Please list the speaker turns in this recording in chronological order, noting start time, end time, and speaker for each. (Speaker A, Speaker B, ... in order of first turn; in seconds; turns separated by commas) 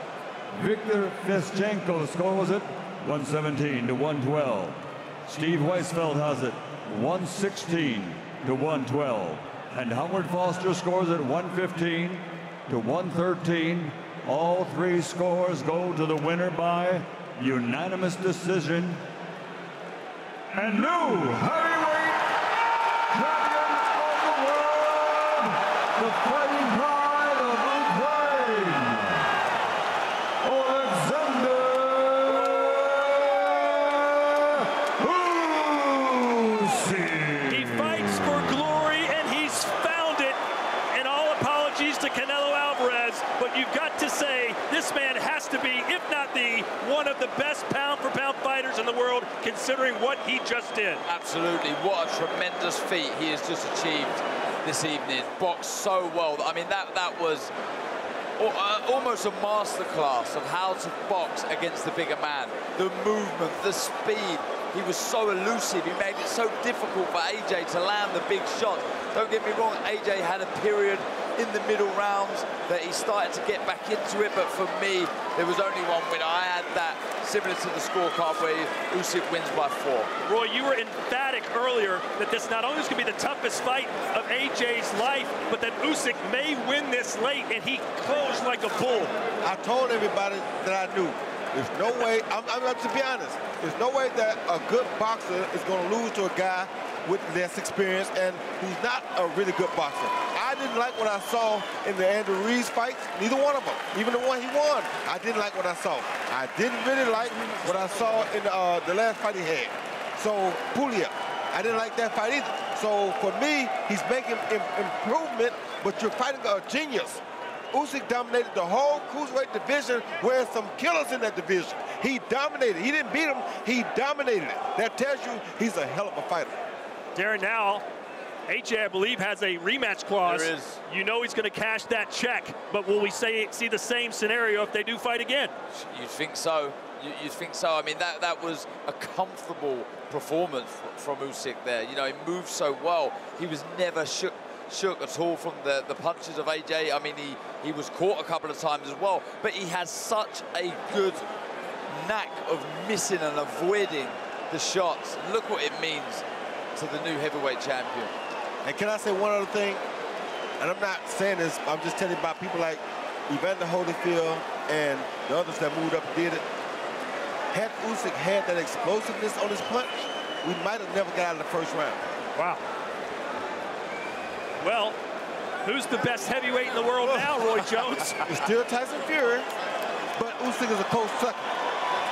Speaker A: 0.5-19.0, Speaker A: 20.5-22.4, Speaker A: 23.1-29.2, Speaker A: 30.4-38.4, Speaker B: 37.5-40.4, Speaker B: 40.9-51.0, Speaker C: 51.1-57.5, Speaker C: 58.4-80.1, Speaker B: 80.3-89.1, Speaker D: 89.4-126.6, Speaker B: 127.2-127.8, Speaker B: 128.5-135.5, Speaker C: 130.2-130.8, Speaker C: 135.7-151.2, Speaker C: 151.9-156.2, Speaker C: 156.8-158.1, Speaker D: 158.6-159.8, Speaker D: 160.6-166.4, Speaker D: 167.5-172.0, Speaker B: 172.4-172.6, Speaker B: 174.6-175.0, Speaker B: 175.7-178.2, Speaker C: 177.1-178.3, Speaker D: 178.2-179.5, Speaker D: 180.2-181.5